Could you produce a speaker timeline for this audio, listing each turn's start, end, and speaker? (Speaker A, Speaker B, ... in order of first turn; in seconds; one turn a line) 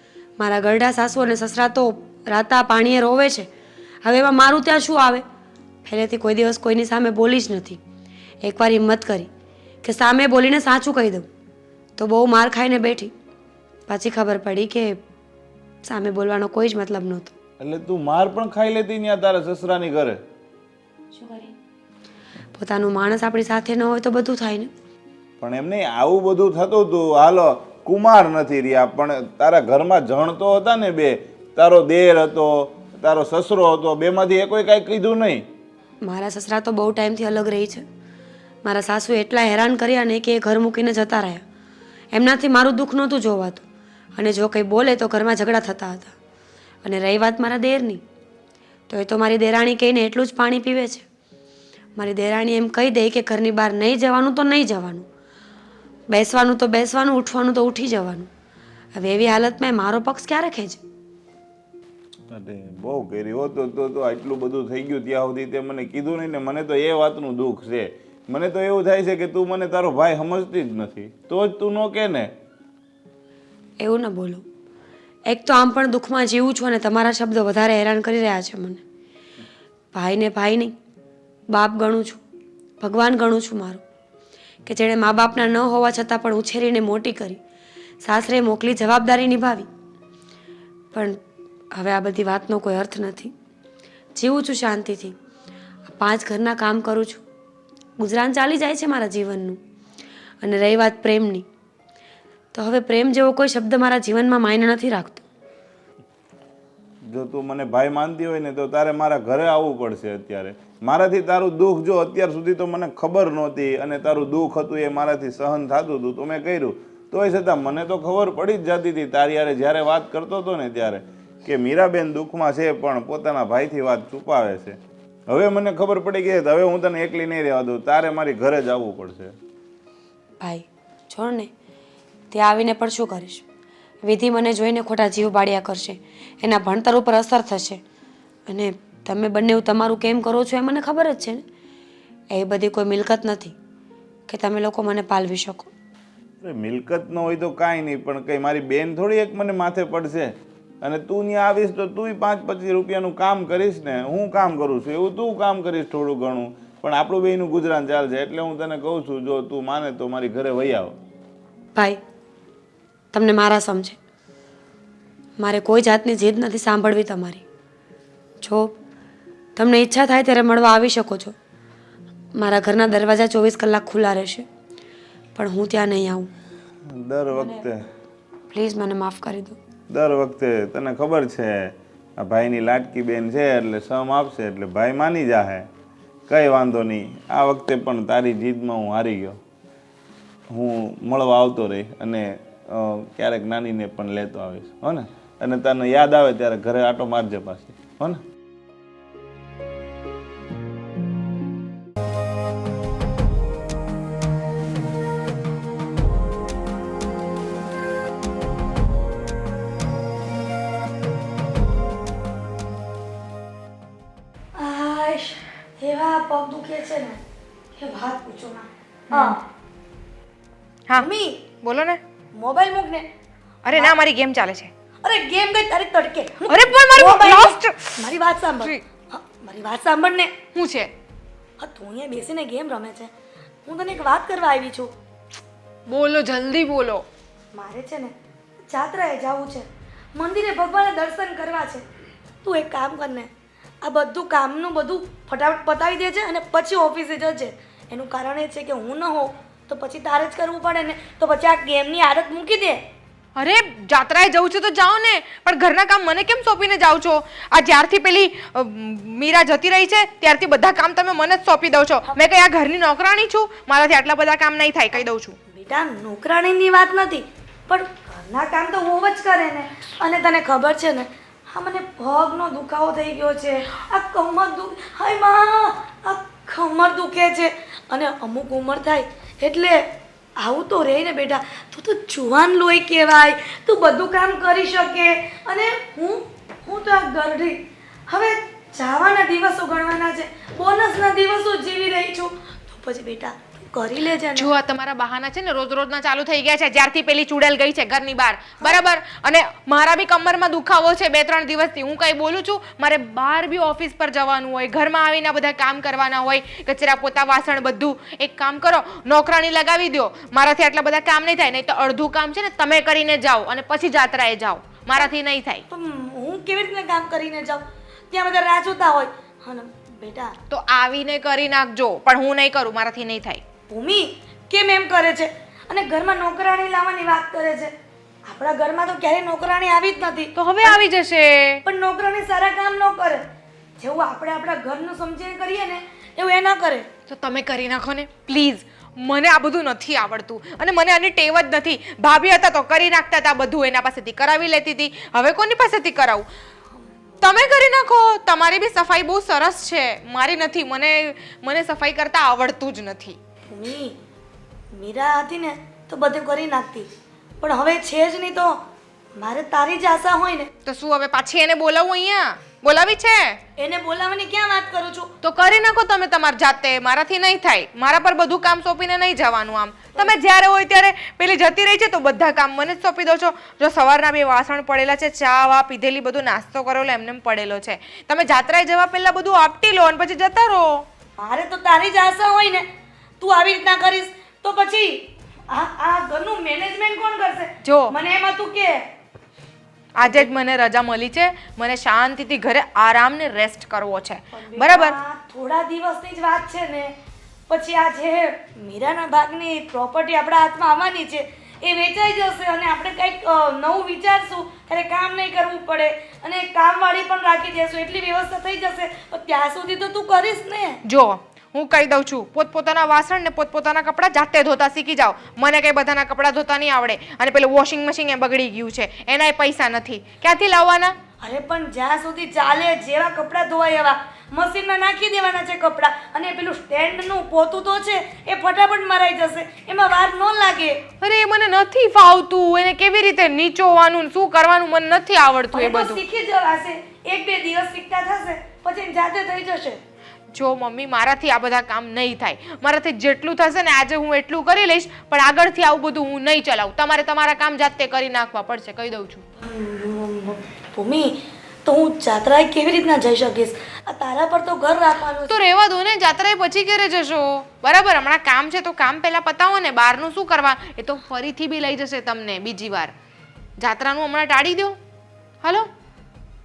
Speaker A: 0.4-3.5
Speaker A: 4.0-5.2
Speaker A: 5.8-7.8
Speaker A: 8.4-9.3
Speaker A: 9.8-11.3
Speaker A: 12.0-13.1
Speaker A: 13.9-15.0
Speaker A: 15.8-17.4
Speaker B: 17.6-20.2
Speaker A: 21.1-21.5
Speaker A: 22.6-24.7
Speaker B: 25.4-35.5
Speaker A: 36.0-37.9
Speaker A: 38.6-41.4
Speaker A: 42.1-46.1
Speaker A: 46.8-48.0
Speaker A: 48.9-51.1
Speaker A: 52.0-55.1
Speaker A: 56.1-58.3
Speaker A: 59.0-60.8
Speaker B: 62.3-72.3
Speaker A: 73.8-74.4
Speaker A: 75.3-78.8
Speaker A: 79.9-80.8
Speaker A: 81.5-82.2
Speaker A: 82.8-83.8
Speaker A: 84.7-87.4
Speaker A: 88.0-89.7
Speaker A: 90.9-91.2
Speaker A: 91.8-93.3
Speaker A: 94.2-95.2
Speaker A: 95.9-97.2
Speaker A: 98.0-99.6
Speaker A: 100.4-101.5
Speaker A: 102.5-105.2
Speaker B: 107.1-129.3
Speaker A: 130.4-131.5
Speaker A: 132.3-133.4
Speaker A: 134.1-137.8
Speaker A: 138.5-141.4
Speaker A: 142.3-143.6
Speaker A: 144.3-145.7
Speaker B: 146.4-161.0
Speaker A: 163.1-164.0
Speaker A: 165.4-167.4
Speaker A: 168.4-168.8
Speaker A: 169.6-171.3
Speaker A: 172.4-174.5
Speaker A: 175.4-176.3
Speaker B: 176.9-177.8
Speaker A: 177.3-177.6
Speaker A: 178.5-179.6
Speaker B: 179.9-185.7
Speaker B: 186.3-189.4
Speaker B: 190.5-198.2
Speaker C: 214.6-217.2
Speaker C: 217.8-219.4
Speaker C: 221.0-221.4
Speaker D: 221.6-222.0
Speaker C: 222.4-223.1
Speaker D: 223.7-224.7
Speaker C: 225.0-230.3
Speaker D: 226.5-228.0
Speaker D: 230.6-230.9
Speaker C: 231.6-233.1
Speaker C: 233.7-234.9
Speaker D: 235.9-237.1
Speaker C: 237.5-238.2
Speaker C: 238.7-241.8
Speaker C: 242.4-243.3
Speaker C: 243.8-252.8
Speaker D: 253.4-265.4
Speaker C: 262.1-262.4
Speaker C: 265.0-279.8
Speaker C: 280.4-287.6
Speaker C: 288.1-294.5
Speaker D: 294.4-315.6
Speaker C: 315.7-320.3
Speaker D: 320.5-323.4
Speaker C: 323.7-327.7
Speaker C: 328.3-330.8
Speaker D: 330.4-331.6
Speaker C: 331.7-333.2
Speaker C: 333.8-336.9
Speaker D: 337.1-346.3
Speaker D: 347.2-353.2
Speaker C: 353.5-354.0
Speaker C: 354.7-356.9
Speaker C: 357.4-358.6
Speaker C: 359.2-360.5
Speaker D: 360.7-363.4
Speaker C: 363.6-365.1
Speaker D: 365.2-380.8
Speaker C: 381.2-382.7
Speaker C: 383.2-388.8
Speaker D: 387.6-387.9
Speaker D: 390.0-395.0
Speaker C: 390.0-390.3
Speaker C: 394.3-396.9
Speaker C: 397.5-410.8
Speaker D: 410.9-420.9
Speaker C: 421.2-430.8
Speaker D: 431.0-436.0
Speaker C: 435.5-439.8
Speaker D: 440.3-449.2
Speaker C: 449.4-455.4
Speaker D: 455.3-462.9
Speaker D: 463.6-464.8
Speaker D: 465.4-465.7